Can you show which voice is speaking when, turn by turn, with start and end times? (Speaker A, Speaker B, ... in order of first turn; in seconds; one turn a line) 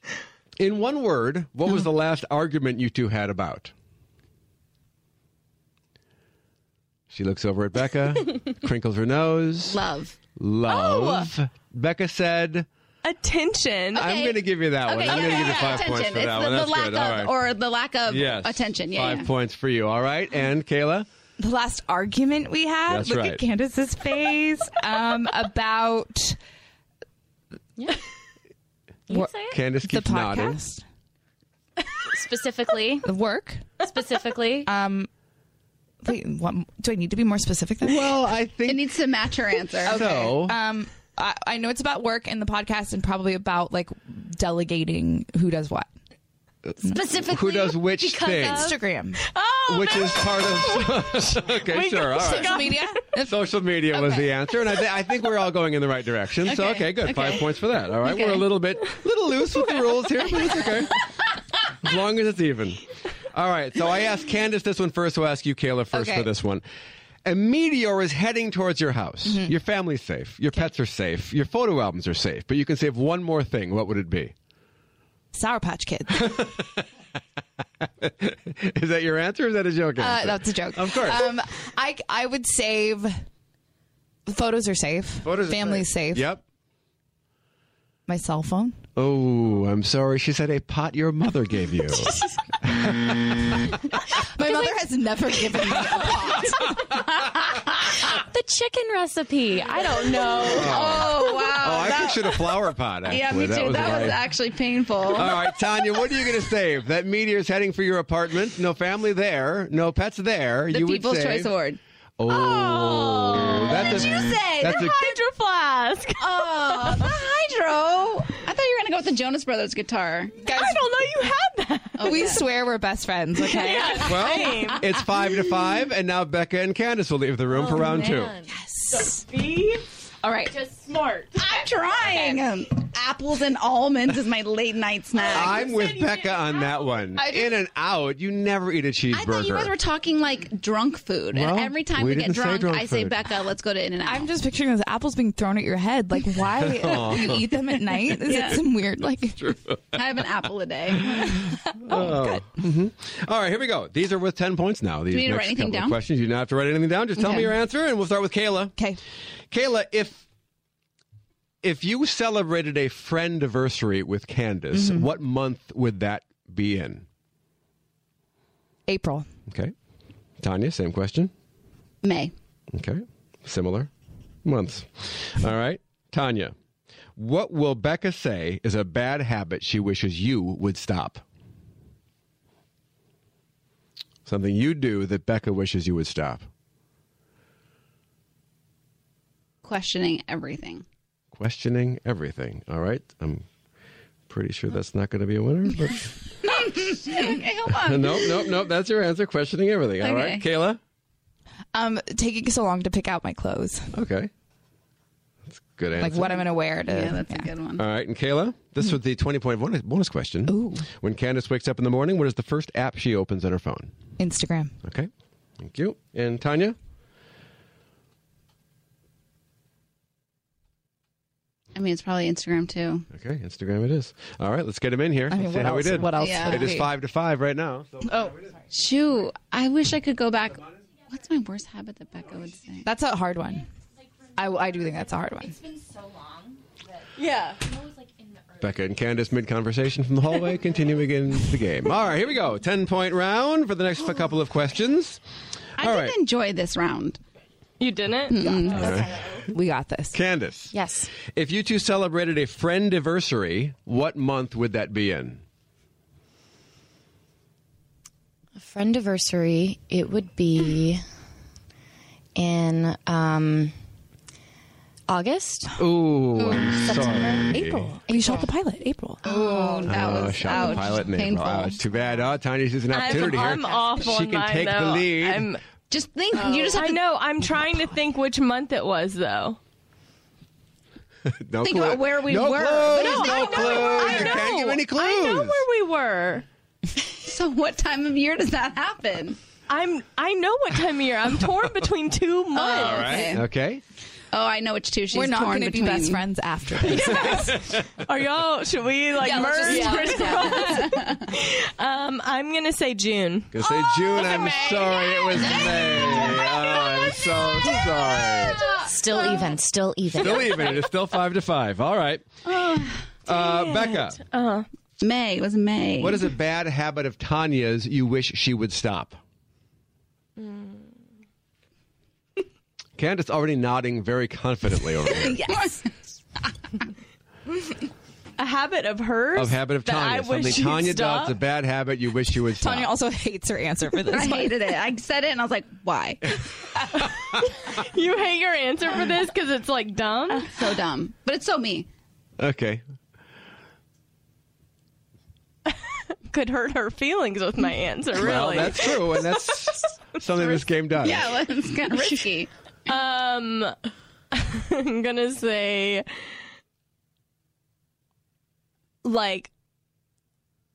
Speaker A: 0.6-3.7
Speaker A: 7.1-9.8
Speaker B: 9.7-10.2
Speaker A: 10.4-12.7
Speaker C: 10.7-11.3
Speaker C: 13.0-14.1
Speaker A: 13.9-17.4
Speaker B: 14.0-19.3
Speaker C: 15.2-15.8
Speaker A: 18.1-21.1
Speaker D: 21.4-26.4
Speaker A: 22.9-23.4
Speaker E: 29.1-29.6
Speaker D: 29.1-30.8
Speaker A: 29.5-30.6
Speaker E: 32.1-33.1
Speaker D: 33.0-33.8
Speaker E: 33.8-34.7
Speaker D: 34.7-35.1
Speaker D: 36.0-38.1
Speaker A: 37.8-38.9
Speaker B: 38.7-40.3
Speaker A: 39.8-40.6
Speaker D: 39.9-45.9
Speaker A: 46.7-48.7
Speaker E: 46.9-48.8
Speaker D: 48.5-49.3
Speaker C: 49.3-52.9
Speaker A: 49.7-52.6
Speaker D: 52.2-53.4
Speaker A: 53.2-60.9
Speaker B: 56.5-57.4
Speaker B: 58.1-58.4
Speaker A: 61.8-62.8
Speaker A: 63.3-66.7
Speaker D: 65.9-66.3
Speaker A: 67.2-74.3
Speaker D: 69.3-69.5
Speaker D: 75.3-76.4
Speaker A: 76.1-76.8
Speaker A: 77.8-81.3
Speaker D: 80.0-83.2
Speaker D: 84.3-86.3
Speaker A: 85.2-86.4
Speaker D: 88.1-88.8
Speaker A: 89.0-93.7
Speaker D: 94.3-96.8
Speaker E: 94.5-94.8
Speaker E: 98.0-100.8
Speaker A: 100.5-104.3
Speaker B: 100.6-105.4
Speaker A: 105.1-111.5
Speaker B: 110.7-111.8
Speaker A: 112.2-115.0
Speaker C: 112.3-117.1
Speaker B: 113.2-115.2
Speaker B: 116.2-120.4
Speaker D: 120.5-120.8
Speaker C: 120.5-122.2
Speaker B: 122.0-122.5
Speaker D: 122.0-124.8
Speaker C: 123.4-124.9
Speaker A: 124.0-128.4
Speaker D: 128.5-129.1
Speaker C: 128.9-129.8
Speaker B: 130.2-130.6
Speaker B: 131.4-135.6
Speaker A: 135.3-139.7
Speaker C: 135.3-136.7
Speaker B: 139.1-144.3
Speaker A: 141.3-143.2
Speaker D: 144.0-149.4
Speaker A: 146.6-147.5
Speaker B: 148.3-148.6
Speaker A: 149.4-150.0
Speaker B: 149.9-151.4
Speaker A: 151.1-158.8
Speaker D: 151.3-152.5
Speaker B: 155.1-156.0
Speaker D: 157.2-157.5
Speaker A: 159.5-160.2
Speaker A: 161.6-167.1
Speaker D: 164.7-165.1
Speaker D: 168.9-169.3
Speaker A: 169.5-169.7
Speaker A: 170.4-171.3
Speaker B: 172.0-172.3
Speaker A: 172.7-173.9
Speaker A: 174.4-176.5
Speaker A: 177.2-181.2
Speaker A: 184.2-186.5
Speaker B: 189.6-190.8
Speaker A: 191.3-193.5
Speaker A: 194.3-196.2
Speaker B: 196.4-198.5
Speaker A: 197.7-200.8
Speaker B: 200.0-200.4
Speaker D: 201.7-203.9
Speaker A: 203.9-204.3
Speaker A: 205.5-206.4
Speaker D: 206.0-207.5
Speaker B: 206.8-207.8
Speaker A: 207.8-214.0
Speaker D: 210.5-210.9
Speaker D: 214.2-214.8
Speaker A: 214.8-216.8
Speaker B: 221.8-223.1
Speaker A: 223.1-228.5
Speaker D: 225.3-226.9
Speaker B: 226.2-226.7
Speaker D: 228.1-228.3
Speaker B: 228.7-232.9
Speaker D: 232.8-233.7
Speaker D: 234.3-235.6
Speaker E: 236.0-236.3
Speaker C: 237.2-237.6
Speaker A: 238.6-245.2
Speaker A: 245.8-246.2
Speaker B: 245.8-247.2
Speaker C: 247.8-248.7
Speaker B: 248.3-248.9
Speaker A: 248.7-249.4
Speaker D: 249.5-250.2
Speaker A: 250.1-255.4
Speaker E: 250.7-251.1
Speaker E: 258.6-261.0
Speaker E: 262.4-263.7
Speaker E: 265.1-265.8
Speaker A: 265.8-268.0
Speaker D: 266.4-270.6
Speaker E: 266.8-267.5
Speaker E: 268.1-268.4
Speaker B: 269.2-271.8
Speaker A: 269.8-275.5
Speaker C: 272.9-275.6
Speaker B: 275.9-277.0
Speaker C: 276.4-279.6
Speaker A: 281.3-285.6
Speaker B: 281.6-284.4
Speaker C: 282.9-286.4
Speaker B: 287.2-289.4
Speaker C: 289.7-293.2
Speaker B: 292.6-293.4
Speaker A: 292.7-293.8
Speaker B: 294.3-296.2
Speaker D: 295.1-297.6
Speaker C: 296.9-307.8
Speaker A: 297.2-297.9
Speaker D: 299.2-300.9
Speaker B: 299.2-301.2
Speaker A: 303.5-308.6
Speaker E: 308.8-310.6
Speaker A: 310.1-312.3
Speaker C: 310.2-310.9
Speaker B: 312.5-313.0
Speaker A: 313.3-314.2
Speaker C: 313.3-314.7
Speaker B: 315.0-316.3
Speaker A: 316.0-319.2
Speaker C: 320.4-320.8
Speaker A: 323.0-325.5
Speaker B: 325.4-325.8
Speaker C: 328.4-331.4
Speaker A: 329.4-332.9
Speaker D: 332.6-334.6
Speaker B: 334.1-336.3
Speaker C: 337.5-340.5
Speaker B: 340.4-341.9
Speaker A: 342.4-342.8
Speaker C: 346.3-349.4
Speaker A: 348.1-351.3
Speaker C: 350.4-350.6
Speaker B: 351.0-352.5
Speaker C: 352.9-353.8
Speaker C: 354.3-356.1
Speaker C: 359.0-359.5